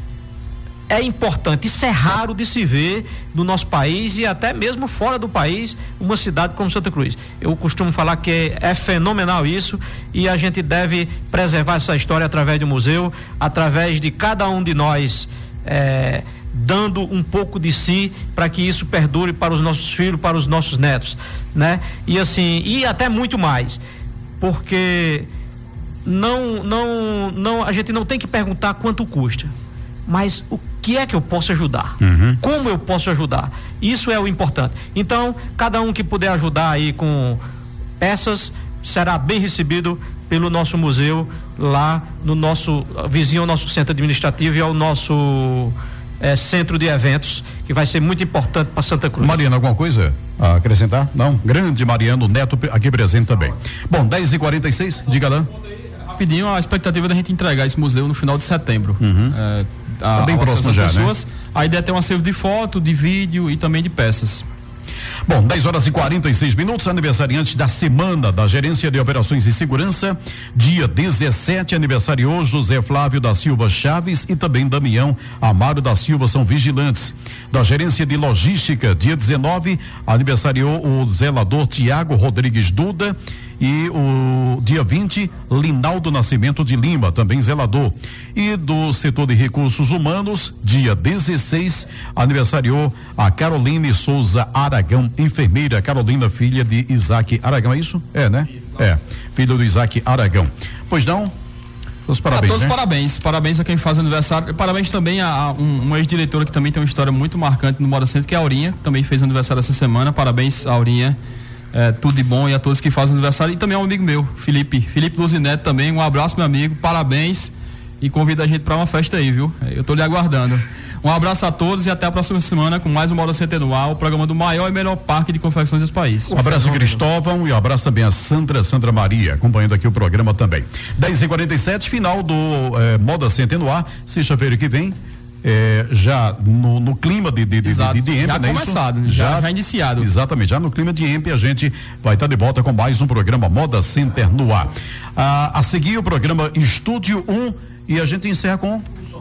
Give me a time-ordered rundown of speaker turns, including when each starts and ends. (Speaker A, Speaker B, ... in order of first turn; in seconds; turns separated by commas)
Speaker A: 0.9-23.8, Speaker A: 24.4-25.3, Speaker A: 26.0-29.5, Speaker A: 30.1-37.4, Speaker B: 32.0-32.4, Speaker A: 38.0-49.4, Speaker B: 49.2-55.5, Speaker C: 56.0-64.5, Speaker B: 59.0-59.3, Speaker B: 60.1-61.1, Speaker B: 65.3-101.3, Speaker B: 102.1-102.7, Speaker C: 102.3-111.2, Speaker C: 111.7-126.4, Speaker A: 126.3-127.0, Speaker B: 126.3-148.8, Speaker C: 137.6-140.1